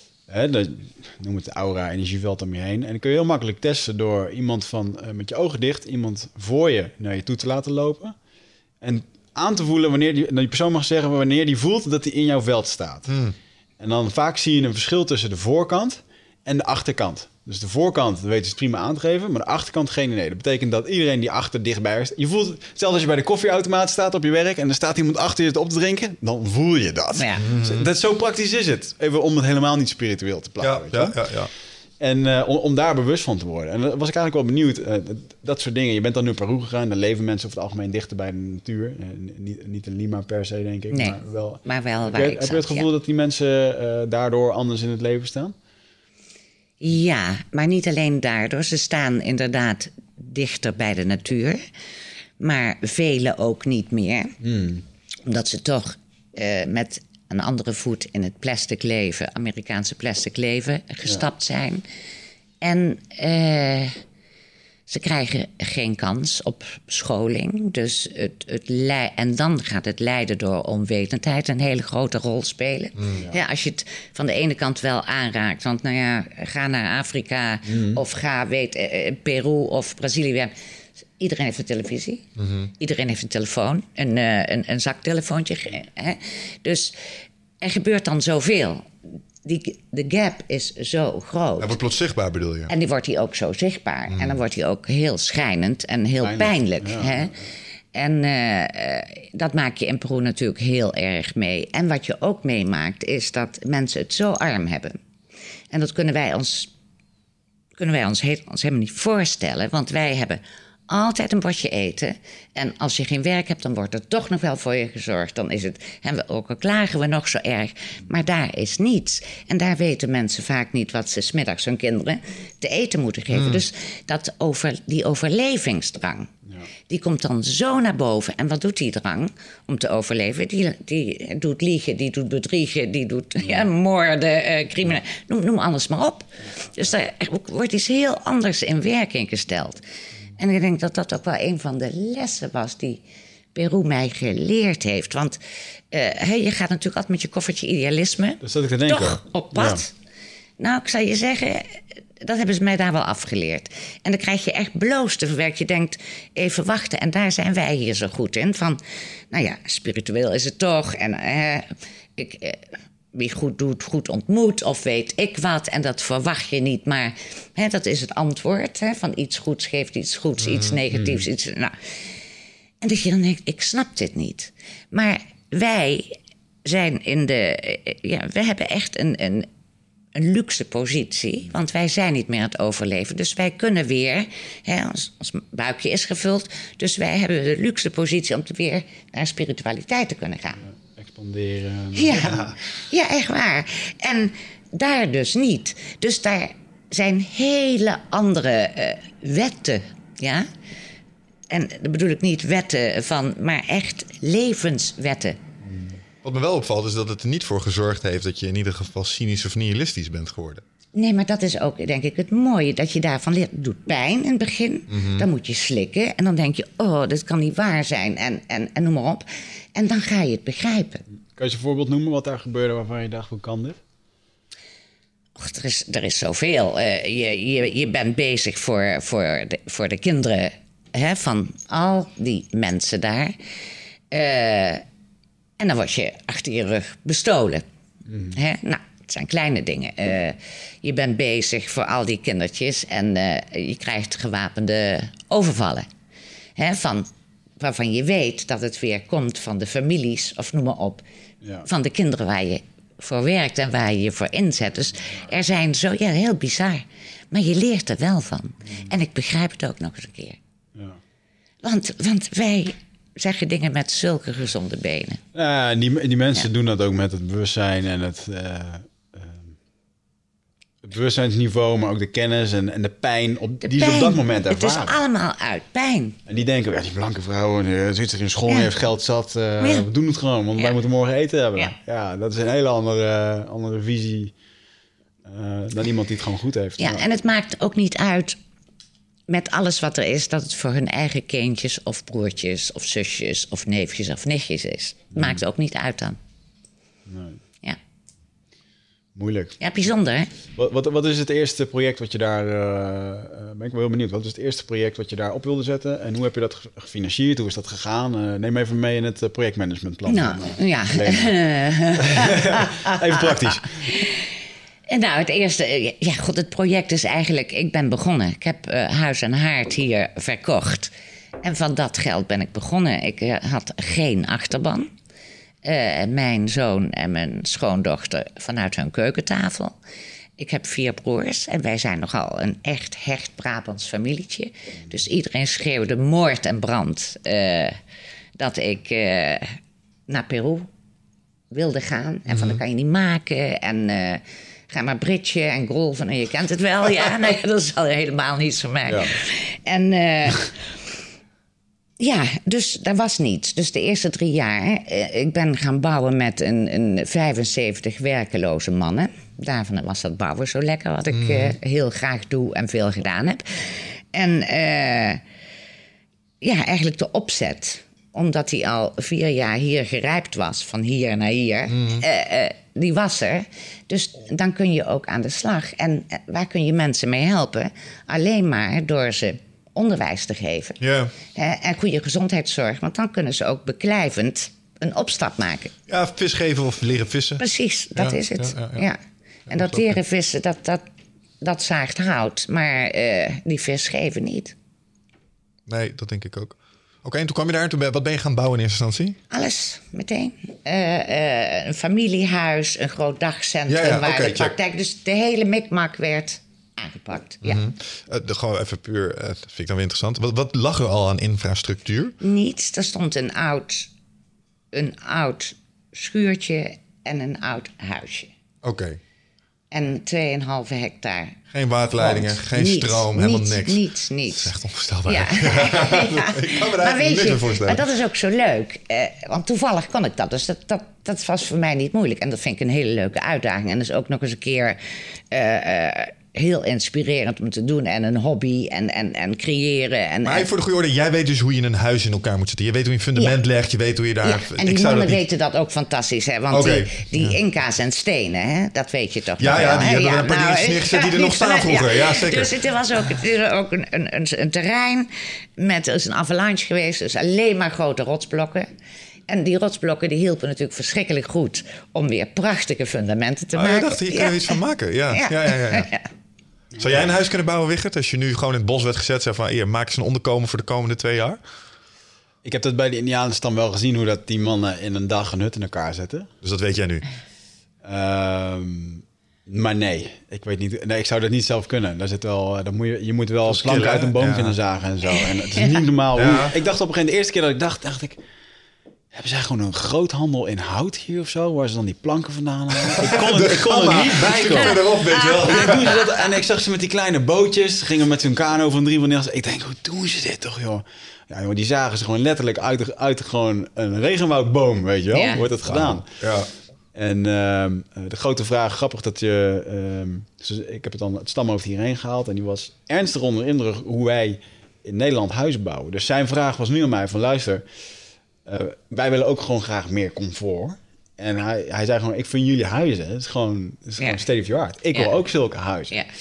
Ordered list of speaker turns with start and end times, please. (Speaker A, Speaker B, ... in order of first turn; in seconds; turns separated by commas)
Speaker A: 0.3-8.1, Speaker A: 8.8-13.2, Speaker B: 13.1-13.3, Speaker A: 13.8-31.2, Speaker C: 27.2-27.4, Speaker B: 27.4-27.9, Speaker B: 30.6-31.5, Speaker A: 32.0-45.5, Speaker C: 40.9-42.9, Speaker C: 46.8-51.6, Speaker C: 52.4-54.4, Speaker A: 54.4-54.8, Speaker C: 55.2-61.8, Speaker C: 62.6-64.0, Speaker C: 64.9-80.5, Speaker A: 77.7-78.0, Speaker C: 81.2-82.2, Speaker B: 82.4-82.7, Speaker C: 82.8-86.9, Speaker C: 87.6-88.9, Speaker C: 89.4-91.8, Speaker B: 91.6-92.7, Speaker C: 92.7-97.3, Speaker B: 94.1-94.4, Speaker A: 96.2-97.5, Speaker C: 97.9-105.0, Speaker C: 105.7-106.7, Speaker C: 107.8-126.3, Speaker B: 123.3-123.6, Speaker C: 126.9-139.8, Speaker A: 133.4-133.7, Speaker C: 140.4-143.0, Speaker C: 143.5-145.4, Speaker C: 145.9-149.9, Speaker A: 148.4-149.8, Speaker C: 150.6-172.2, Speaker B: 170.4-170.8, Speaker C: 172.8-179.5, Speaker C: 180.1-190.6, Speaker A: 190.6-192.6, Speaker C: 191.9-200.5, Speaker C: 201.5-205.4, Speaker A: 205.6-206.0, Speaker B: 206.2-210.6, Speaker C: 210.9-221.0, Speaker B: 214.9-215.2, Speaker A: 221.3-223.8, Speaker C: 225.4-233.3, Speaker C: 234.1-234.8, Speaker C: 235.6-237.6, Speaker A: 238.1-238.4, Speaker C: 238.3-245.9, Speaker C: 246.6-247.1, Speaker C: 247.6-251.0, Speaker C: 251.7-260.4, Speaker A: 260.7-261.0, Speaker C: 261.6-265.2, Speaker A: 265.3-269.6, Speaker A: 270.8-275.0, Speaker C: 273.6-276.2, Speaker A: 276.3-284.3, Speaker C: 279.6-279.9, Speaker A: 285.2-287.0, Speaker C: 286.8-288.4, Speaker C: 289.3-296.2, Speaker A: 295.1-295.4, Speaker A: 297.1-297.4, Speaker A: 299.1-299.6, Speaker C: 299.6-300.3, Speaker A: 300.5-311.4, Speaker C: 310.1-314.2, Speaker A: 311.9-313.8, Speaker C: 314.9-324.9, Speaker C: 325.6-329.8, Speaker C: 330.4-337.8, Speaker C: 338.4-339.6, Speaker C: 340.1-340.7, Speaker C: 341.5-351.0, Speaker B: 342.3-342.6, Speaker A: 348.9-349.1, Speaker C: 352.0-365.2, Speaker B: 361.1-361.6, Speaker C: 366.4-380.8, Speaker B: 371.7-372.1, Speaker B: 380.8-381.1, Speaker C: 381.3-385.7, Speaker B: 385.9-387.4, Speaker C: 387.4-390.8, Speaker B: 387.9-388.9, Speaker B: 389.5-390.0, Speaker C: 391.4-394.5, Speaker B: 395.7-399.2, Speaker C: 399.3-407.6, Speaker B: 403.7-404.5, Speaker B: 407.4-412.1, Speaker C: 412.2-413.9, Speaker C: 414.7-418.3, Speaker B: 418.6-419.0, Speaker C: 419.7-421.4, Speaker B: 421.5-427.8, Speaker C: 422.0-424.5, Speaker C: 425.1-440.5, Speaker B: 440.2-445.2, Speaker C: 444.2-458.7, Speaker B: 446.5-447.4, Speaker B: 449.4-452.5, Speaker C: 459.3-464.6, Speaker B: 463.5-465.9, Speaker C: 465.1-466.1, Speaker A: 466.7-467.0, Speaker B: 466.8-471.4, Speaker A: 472.4-476.3, Speaker B: 476.4-477.0, Speaker A: 477.8-488.2, Speaker B: 483.5-484.6, Speaker B: 486.1-486.5, Speaker A: 489.1-494.8, Speaker B: 492.8-495.9, Speaker C: 494.2-496.3, Speaker A: 495.4-506.1, Speaker C: 505.1-505.4, Speaker B: 505.6-506.5, Speaker A: 506.9-517.6, Speaker A: 518.5-526.0